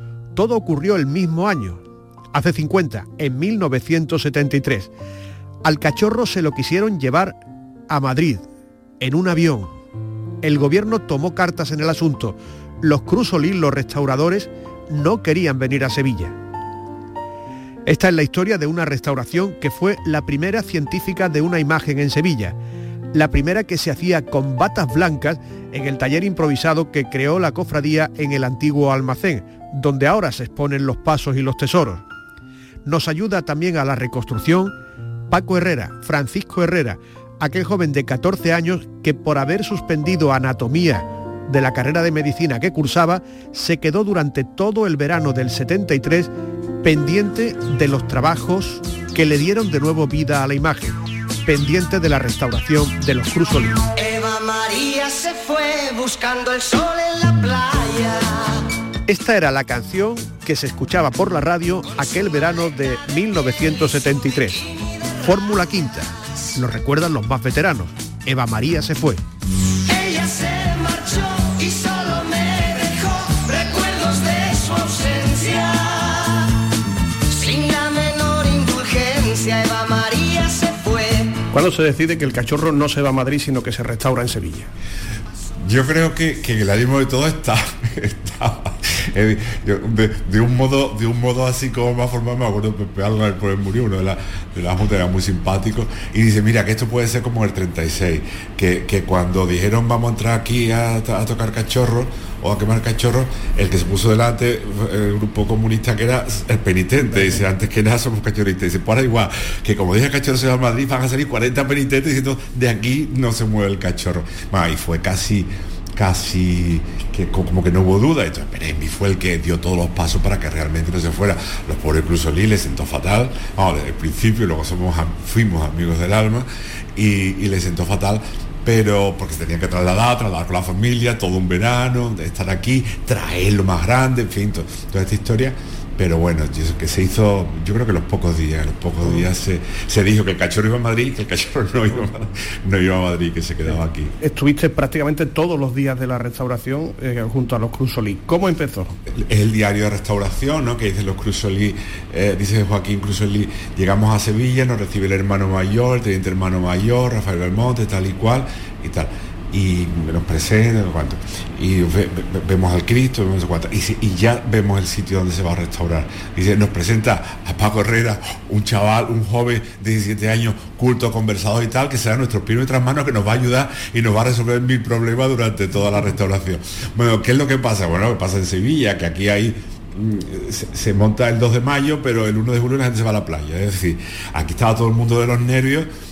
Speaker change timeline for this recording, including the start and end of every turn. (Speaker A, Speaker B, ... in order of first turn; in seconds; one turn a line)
Speaker A: 0.3-1.8
Speaker A: 2.3-4.9
Speaker A: 5.6-8.4
Speaker A: 9.0-9.7
Speaker A: 10.4-16.4
Speaker A: 17.9-22.6
Speaker A: 23.1-32.0
Speaker A: 32.9-34.8
Speaker A: 35.3-46.3
Speaker A: 46.8-53.9
Speaker B: 54.0-58.6
Speaker A: 59.1-64.6
Speaker A: 65.2-69.2
Speaker B: 69.9-76.5
Speaker B: 77.3-81.4
Speaker A: 81.5-84.7
Speaker C: 85.6-144.2
Speaker A: 144.2-148.9
Speaker C: 149.1-185.9